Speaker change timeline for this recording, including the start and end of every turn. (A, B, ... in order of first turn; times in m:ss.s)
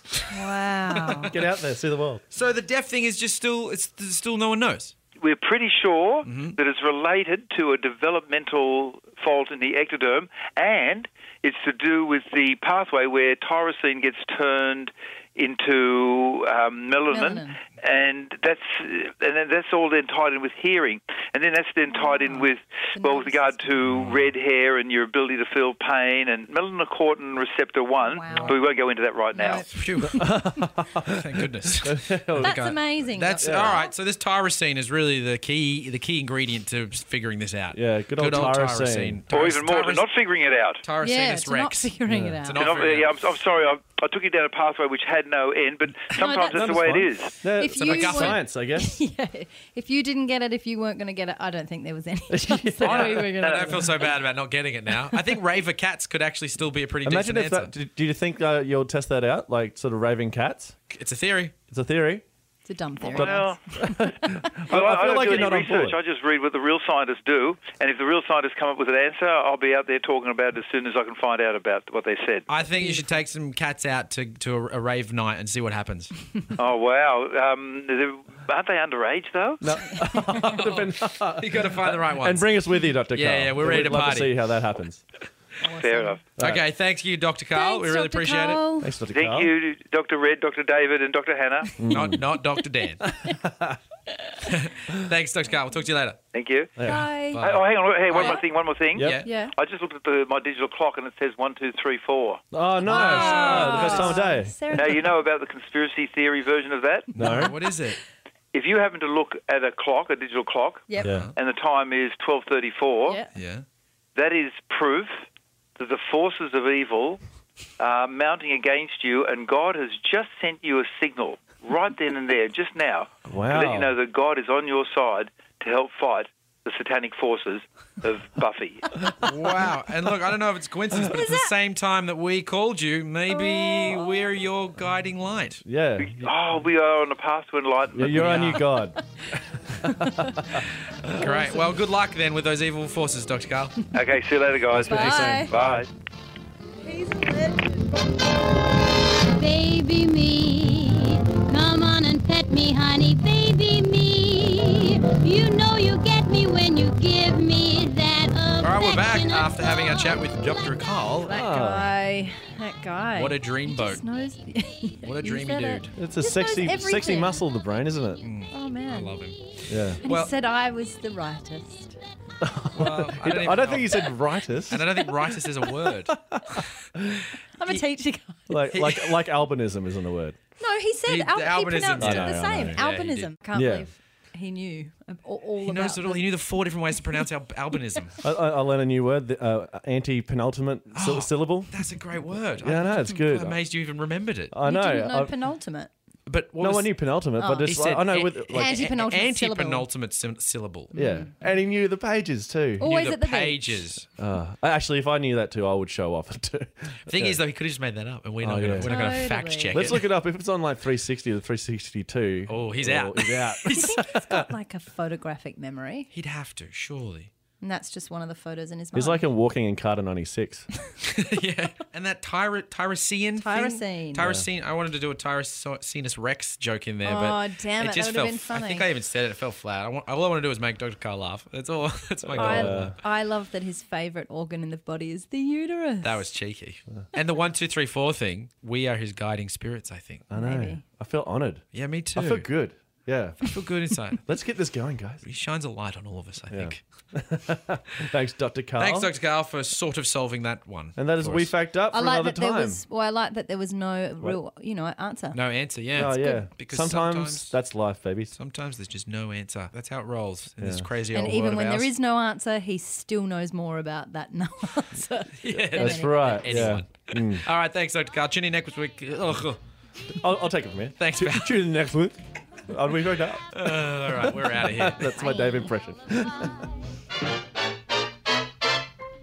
0:00.3-0:01.3 A
0:01.3-0:02.2 B
0:02.3-0:04.9 C
0:05.2-0:29.6 D
0:06.2-0:06.6 C
0:17.1-0:17.6 A
0:21.9-0:23.7 A
0:23.8-0:24.3 C
0:28.0-0:28.6 A
0:29.3-0:30.4 A
0:29.7-0:30.2 C
0:30.1-0:32.6 B
0:31.1-0:40.1 C
0:32.4-0:33.9 A
0:33.4-0:33.8 B
0:37.7-0:39.2 B
0:39.3-0:40.8 D
0:40.8-0:43.2 C
0:41.0-0:42.7 A
0:42.1-0:42.4 B
0:42.5-0:47.4 D
0:46.2-0:54.1 A
0:47.4-0:49.0 B
0:47.7-0:48.4 C
0:52.3-0:53.3 B
0:52.8-0:53.8 D
0:52.8-0:57.7 C
0:55.1-0:55.3 A
0:57.0-1:00.7 B
1:00.9-1:01.5 C
1:01.7-1:02.2 B
1:02.6-1:04.5 A
1:03.0-1:06.0 B
1:03.0-1:03.6 D
1:04.6-1:12.5 D
1:12.5-1:16.1 C
1:12.8-1:13.0 A
1:16.6-1:19.6 D
1:19.6-1:25.0 B
1:19.9-1:20.3 A
1:20.4-1:22.5 C
1:23.1-1:24.4 C
1:25.6-1:26.2 A
1:25.8-1:26.2 D
1:26.4-1:26.6 B
1:26.4-1:28.6 C
1:27.5-1:28.9 A
1:28.8-1:29.5 B
1:29.1-1:31.8 D
1:31.8-1:32.2 B
1:31.9-1:33.0 C
1:33.0-1:33.8 B
1:34.4-1:36.2 C
1:36.3-1:36.8 D
1:36.8-1:37.1 B
1:36.8-1:37.5 A
1:37.3-1:38.4 C
1:37.4-1:42.4 D
1:38.1-1:38.4 A
1:38.9-1:39.2 B
1:38.9-1:39.3 C
1:39.2-1:39.5 A
1:42.5-1:44.8 B
1:42.8-1:45.1 A
1:42.8-1:44.2 C
1:44.7-1:47.1 D
1:47.1-1:47.6 B
1:47.2-1:48.0 C
1:47.2-1:47.5 A
1:48.5-1:53.2 D
1:50.9-1:51.2 A
1:51.0-1:51.3 B
1:51.0-1:51.3 C
1:53.1-1:53.3 A
1:53.3-1:53.6 C
1:54.2-1:55.2 D
1:55.8-1:57.2 D
1:57.8-2:09.0 D
2:03.3-2:03.9 B
2:09.2-2:15.6 C
2:11.0-2:11.5 A
2:13.3-2:14.3 A
2:15.6-2:16.3 B
2:16.0-2:18.6 D
2:17.9-2:20.6 B
2:18.0-2:18.7 C
2:19.8-2:20.6 A
2:20.6-2:23.8 C
2:21.1-2:21.7 A
2:23.9-2:25.9 D
2:24.7-2:25.9 B
2:24.8-2:25.5 A
2:26.8-2:28.0 A
2:29.4-2:40.3 E
2:34.5-2:35.0 A
2:38.6-2:41.4 C
2:41.2-2:47.4 A
2:41.3-2:41.9 B
2:43.1-2:44.0 C
2:45.0-2:45.9 C
2:46.0-2:48.2 B
2:48.2-2:50.3 C
2:48.5-2:49.1 A
2:49.7-2:50.0 B
2:50.0-2:52.0 A
2:52.4-2:57.3 B
2:52.7-2:54.1 C
2:54.7-2:56.2 C
2:57.5-2:58.7 A
2:58.5-3:00.4 B
2:58.7-2:59.2 C
3:00.6-3:06.5 A
3:01.0-3:03.3 C
3:02.0-3:02.8 B
3:03.5-3:03.9 B
3:05.6-3:08.2 C
3:08.2-3:11.8 B
3:10.9-3:14.5 C
3:12.6-3:13.6 B
3:14.5-3:15.3 B
3:14.6-3:15.9 A
3:16.3-3:17.0 C
3:16.6-3:18.8 B
3:17.4-3:17.8 A
3:17.6-3:20.9 C
3:18.5-3:19.9 A
3:20.9-3:21.3 A
3:20.9-3:22.9 B
3:22.8-3:24.0 A
3:22.8-3:24.1 C
3:24.2-3:27.4 B
3:27.1-3:30.0 C
3:28.4-3:28.9 B
3:28.8-3:29.9 A
3:29.7-3:34.5 B
3:32.5-3:33.9 C
3:33.7-3:36.1 A
3:36.1-3:37.3 C
3:37.6-3:39.2 A
3:38.9-3:40.7 B
3:41.0-3:53.0 C
3:43.4-3:44.3 A
3:44.2-3:44.5 B
3:47.0-3:48.9 A
3:52.3-3:53.0 B
3:52.3-3:56.2 A
3:56.0-4:00.2 C
4:00.3-4:01.6 B
4:00.3-4:00.8 A
4:01.7-4:02.5 C
4:02.1-4:03.5 B
4:03.4-4:04.2 C
4:04.2-4:05.2 B
4:05.2-4:06.8 C
4:06.5-4:09.1 B
4:08.8-4:11.5 C
4:11.0-4:12.8 B
4:11.9-4:15.4 A
4:15.3-4:17.5 C
4:15.9-4:18.3 B
4:16.2-4:16.5 A
4:18.3-4:21.9 C
4:20.6-4:20.9 B
4:21.1-4:26.7 A
4:25.4-4:29.6 C
4:25.5-4:27.4 B
4:30.1-4:36.5 B
4:31.0-4:31.6 C
4:33.5-4:35.2 C
4:35.1-4:35.7 A